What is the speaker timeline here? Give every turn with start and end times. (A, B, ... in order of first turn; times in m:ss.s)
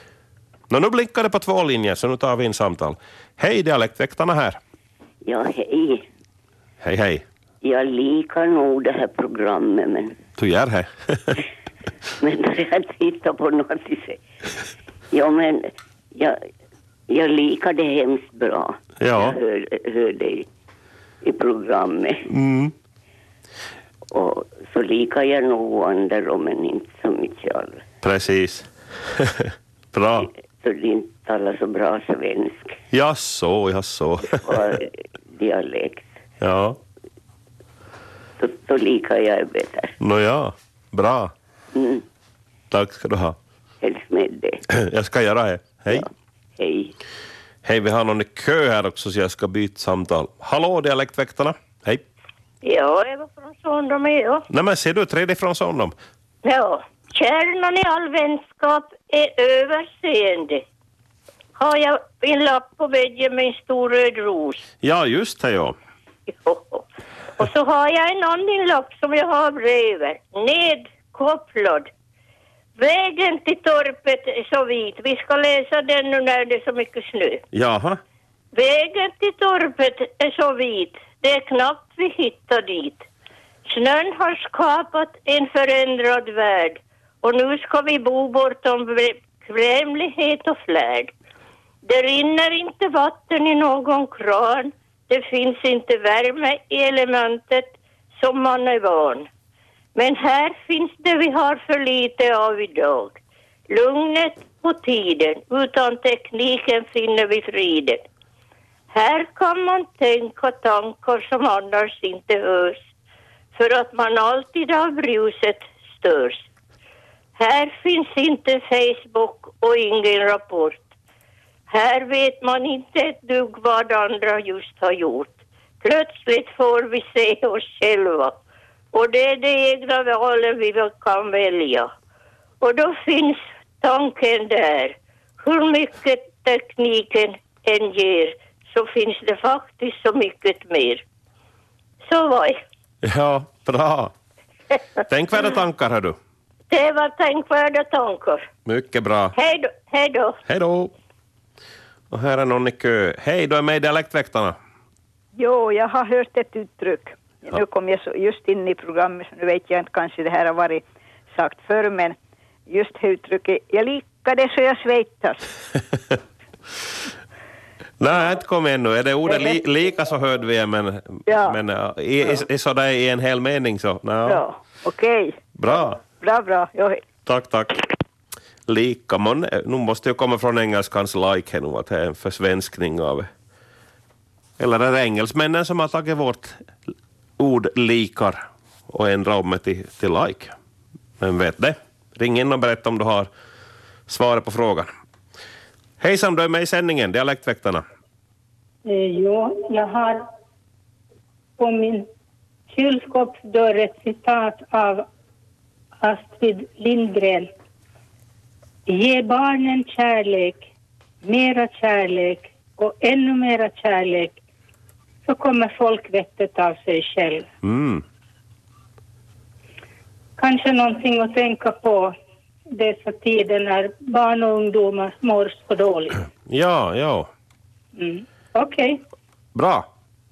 0:00.7-0:04.6 A
0:05.2-0:06.0 B
0:06.8-0:07.2 A
0:07.6-0:10.2 B
0:10.4-0:11.4 A
0:12.2-0:14.2 B
0:15.1-0:16.4 B
0:17.1-0:20.5 B
0:19.0-0:19.4 A
0:21.2-0:22.2 B
0:22.3-0:22.7 A
0:24.1-0:27.8 B
0:28.0-0:28.7 A
0:29.2-0:30.3 A
0:30.4-0:32.8 B
0:32.9-0:34.7 A
0:34.4-0:36.1 B
0:36.4-0:36.8 A
0:38.4-0:39.9 B
0:40.0-0:41.3 A
0:41.7-0:42.0 B
0:42.7-0:43.4 A
0:43.8-0:44.6 B
0:44.8-0:46.0 A
0:46.6-0:46.9 B
0:47.6-0:52.0 A
0:52.6-0:54.4 C
0:54.5-0:55.9 A
0:56.4-1:00.6 C
1:01.6-1:04.6 C
1:04.8-1:05.8 A
1:06.4-1:06.8 C
1:07.4-1:11.9 C
1:12.8-1:17.4 C
1:17.5-1:18.0 A
1:18.5-1:23.0 C
1:23.7-1:31.1 C
1:31.8-1:39.3 C
1:40.0-1:43.2 C
1:43.7-1:48.0 C
1:48.9-1:52.8 C
1:53.6-1:56.4 C
1:57.4-2:00.8 C
2:01.7-2:08.3 C
2:08.9-2:11.9 C
2:12.6-2:21.0 C
2:22.1-2:22.6 C
2:23.0-2:24.1 A
2:25.1-2:26.2 A
2:26.7-2:28.5 C
2:28.7-2:29.4 A
2:29.4-2:30.4 C
2:30.5-2:30.9 A
2:32.1-2:34.6 A
2:35.4-2:40.8 D
2:41.3-2:42.2 D
2:42.7-2:45.4 D
2:48.0-2:54.4 A
2:49.2-2:49.6 D
2:51.3-2:51.6 D
2:54.3-2:57.0 D
2:55.6-2:56.0 A
2:57.3-2:57.8 A
2:58.7-3:03.3 A
3:04.6-3:06.6 A
3:07.4-3:10.6 A
3:11.2-3:13.3 A
3:14.1-3:14.9 A
3:16.0-3:17.8 A
3:18.8-3:20.2 E
3:21.6-3:22.1 E
3:22.7-3:25.1 E
3:26.0-3:27.5 E
3:28.9-3:30.6 E
3:31.2-3:34.4 E
3:35.3-3:37.5 E
3:37.6-3:38.0 A
3:40.4-3:42.2 E
3:42.7-3:46.3 E
3:46.5-3:47.3 A
3:48.0-3:49.0 E
3:49.6-3:49.9 A